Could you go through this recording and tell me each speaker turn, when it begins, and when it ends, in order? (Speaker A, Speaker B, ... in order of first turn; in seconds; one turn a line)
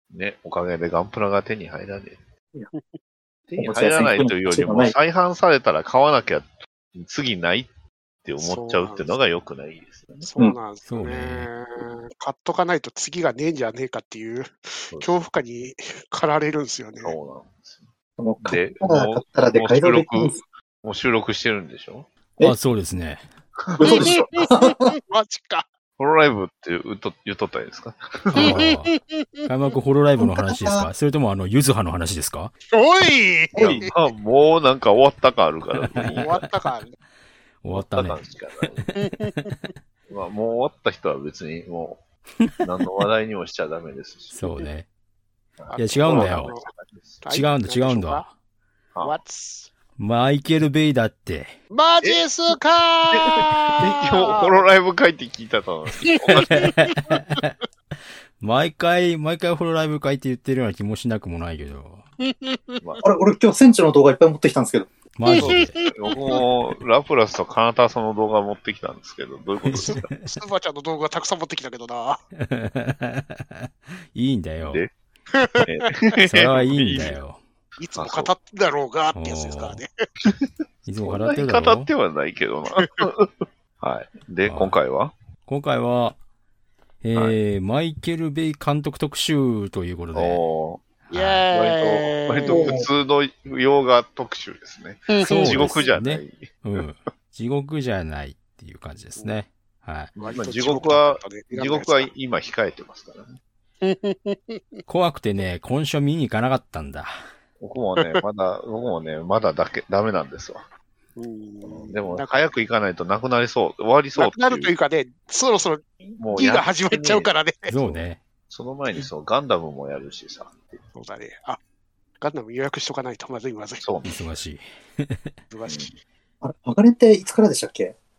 Speaker A: 0.1-2.2
Speaker A: 3.5-7.7
Speaker B: 3.6-5.0
Speaker A: 8.2-10.3
Speaker C: 8.4-9.2
Speaker C: 10.2-17.2
Speaker D: 10.8-11.5
Speaker A: 14.9-15.2
Speaker A: 17.0-22.1
Speaker B: 18.2-20.4
Speaker D: 22.4-23.2
Speaker A: 23.6-24.1
Speaker B: 23.8-24.9
Speaker C: 23.8-25.7
Speaker A: 26.0-28.7
Speaker D: 28.3-28.9
Speaker C: 28.4-29.4
Speaker D: 29.4-32.5
Speaker B: 30.2-30.9
Speaker C: 32.7-33.9
Speaker B: 33.5-33.8
Speaker A: 33.6-36.4
Speaker C: 35.9-37.0
Speaker D: 36.0-36.3
Speaker D: 37.6-39.0
Speaker A: 37.7-38.9
Speaker C: 39.0-39.6
Speaker A: 40.1-42.0
Speaker A: 42.6-44.4
Speaker D: 44.4-44.9
Speaker A: 45.6-47.5
Speaker C: 45.7-46.7
Speaker D: 45.8-46.5
Speaker C: 47.2-48.3
Speaker D: 47.3-48.3
Speaker C: 49.0-49.7
Speaker D: 50.0-51.5
Speaker C: 51.7-54.6
Speaker A: 53.1-56.7
Speaker C: 56.0-57.2
Speaker D: 56.3-57.5
Speaker D: 58.4-62.0
Speaker C: 62.2-62.8
Speaker A: 62.8-63.1
Speaker B: 63.0-64.9
Speaker D: 65.2-65.8
Speaker C: 65.3-66.2
Speaker A: 65.3-70.0
Speaker D: 69.7-70.3
Speaker C: 69.8-72.2
Speaker D: 72.4-74.8
Speaker C: 75.3-76.1
Speaker A: 75.6-77.2
Speaker D: 76.2-77.4
Speaker C: 77.8-79.9
Speaker A: 78.0-78.3
Speaker D: 79.1-79.8
Speaker D: 80.8-81.9
Speaker A: 81.0-85.1
Speaker C: 82.8-83.0
Speaker D: 84.4-84.8
Speaker D: 85.5-86.2
Speaker D: 87.0-90.4
Speaker A: 90.1-90.8
Speaker D: 91.0-91.4
Speaker C: 91.1-92.8
Speaker A: 91.5-96.8
Speaker B: 92.5-92.9
Speaker C: 95.1-95.8
Speaker D: 95.2-100.1
Speaker A: 100.2-103.4
Speaker C: 100.2-102.1
Speaker C: 103.8-104.8
Speaker D: 104.9-107.2
Speaker A: 107.6-110.6
Speaker C: 111.2-112.5
Speaker A: 111.6-114.7
Speaker C: 114.2-117.7
Speaker A: 116.1-120.9
Speaker D: 117.7-118.2
Speaker C: 120.9-121.6
Speaker C: 122.2-123.8
Speaker A: 123.8-124.2
Speaker D: 124.0-125.2
Speaker C: 125.5-126.0
Speaker A: 125.7-125.9
Speaker B: 126.4-127.9